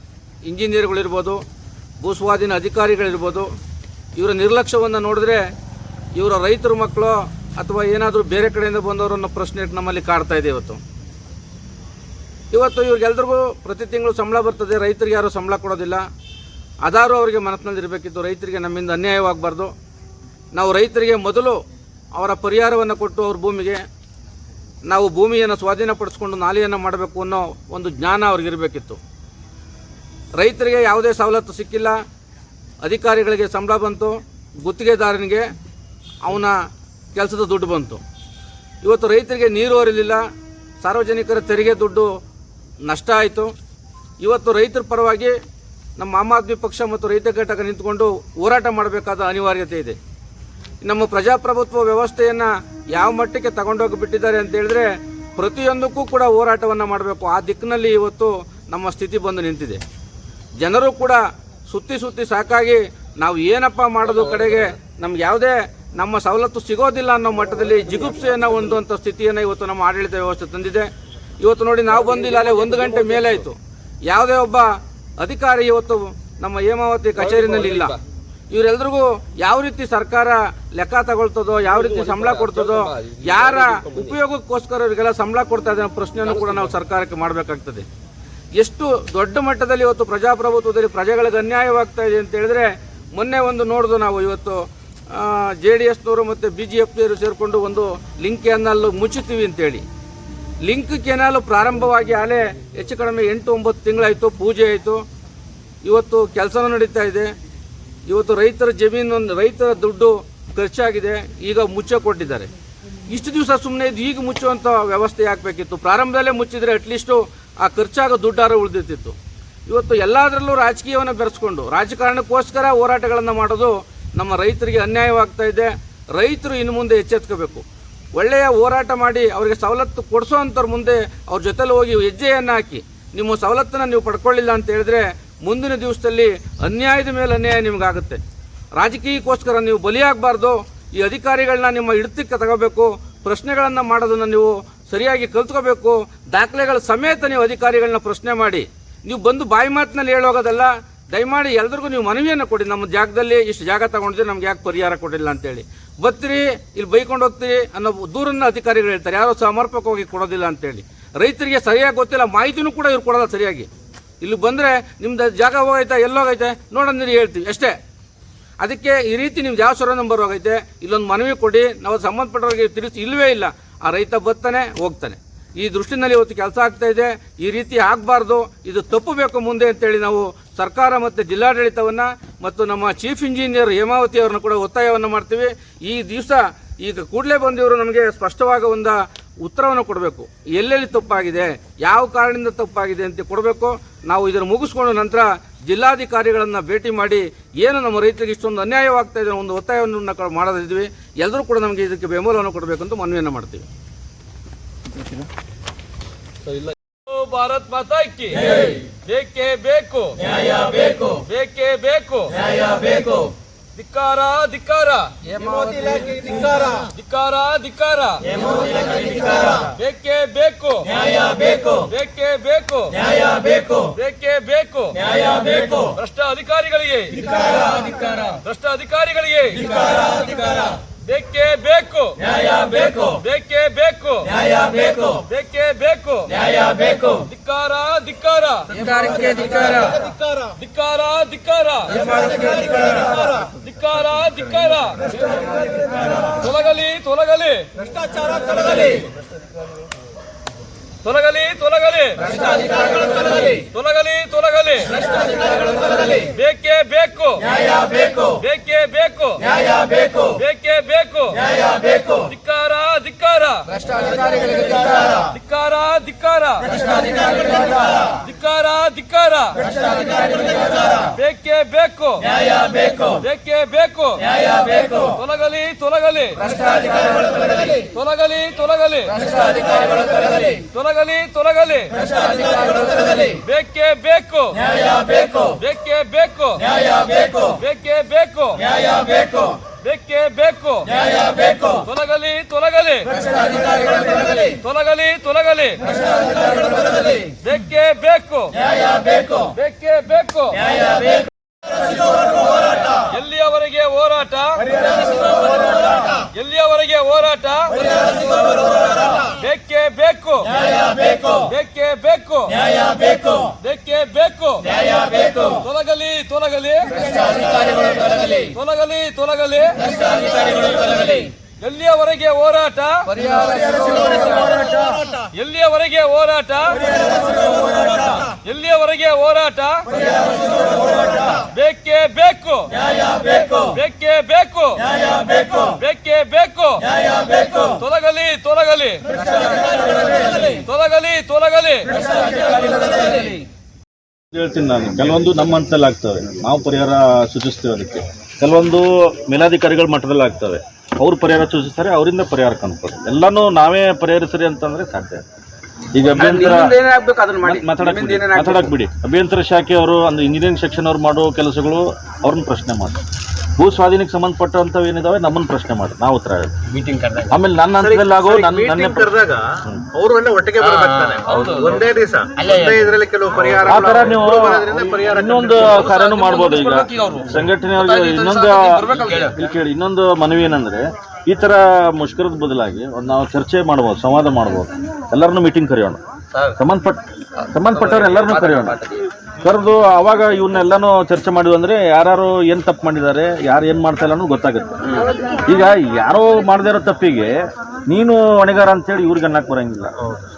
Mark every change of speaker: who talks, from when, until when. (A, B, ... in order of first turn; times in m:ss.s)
0:00.4-0:01.4 A
0:02.0-0:03.5 A
0:04.2-0:05.4 A
0:06.2-0:10.8 A
0:12.5-0:16.0 A
0:16.8-0:19.7 A
0:20.5-0:21.6 A
0:22.2-0:23.8 A
0:24.9-0:29.0 A
0:30.4-0:32.0 A
0:32.8-0:35.4 A
0:36.2-0:36.6 A
0:37.1-0:38.0 A
0:38.8-0:40.2 A
0:40.8-0:42.1 A
0:42.8-0:43.5 A
0:44.2-0:45.4 A
0:46.0-0:50.0 A
0:50.8-0:59.8 A
1:00.6-1:10.9 A
1:11.4-1:13.5 A
1:12.1-1:13.4 B
1:14.1-1:14.7 A
1:15.2-1:18.0 A
1:17.2-1:18.0 B
1:18.5-1:27.9 A
1:21.7-1:24.2 B
1:26.2-1:26.7 B
1:28.6-1:34.6 A
1:35.1-1:39.8 A
1:40.6-1:45.0 A
1:45.8-1:47.3 A
1:48.1-1:52.5 A
1:53.1-1:59.2 A
1:59.7-2:07.6 A
2:08.2-2:18.2 A
2:18.8-2:43.7 A
2:44.2-2:47.8 A
2:48.6-3:23.7 A
3:26.5-3:35.2 B
3:35.2-3:36.3 A
3:36.9-3:58.8 B
3:58.7-3:59.9 A
4:00.6-4:02.1 B
4:02.7-4:05.3 B
4:06.3-4:07.7 B
4:11.0-4:12.3 B
4:13.0-4:15.0 B
4:16.1-4:23.7 B
4:23.7-4:25.1 A
4:25.2-4:29.6 B
4:31.0-4:32.3 B
4:32.9-4:36.4 B
4:37.7-4:39.2 B
4:40.0-4:56.0 B
4:57.2-5:00.8 B
5:03.0-5:23.1 B
5:23.2-5:23.8 A
5:25.2-5:30.0 B
5:31.0-5:32.7 B
5:33.4-5:39.2 B
5:40.1-5:42.0 B
5:44.3-5:55.2 C
5:55.9-5:56.7 C
5:56.1-5:58.7 A
5:57.4-6:03.0 C
6:03.6-6:06.5 C
6:06.7-6:07.3 D
6:07.3-6:09.8 C
6:08.4-6:09.3 E
6:10.0-6:11.2 E
6:10.6-6:11.8 D
6:11.3-6:11.9 B
6:12.4-6:14.3 D
6:12.6-6:15.2 E
6:13.6-6:26.0 C
6:15.6-6:19.4 B
6:26.6-6:28.8 C
6:27.4-6:29.0 B
6:29.4-6:39.9 C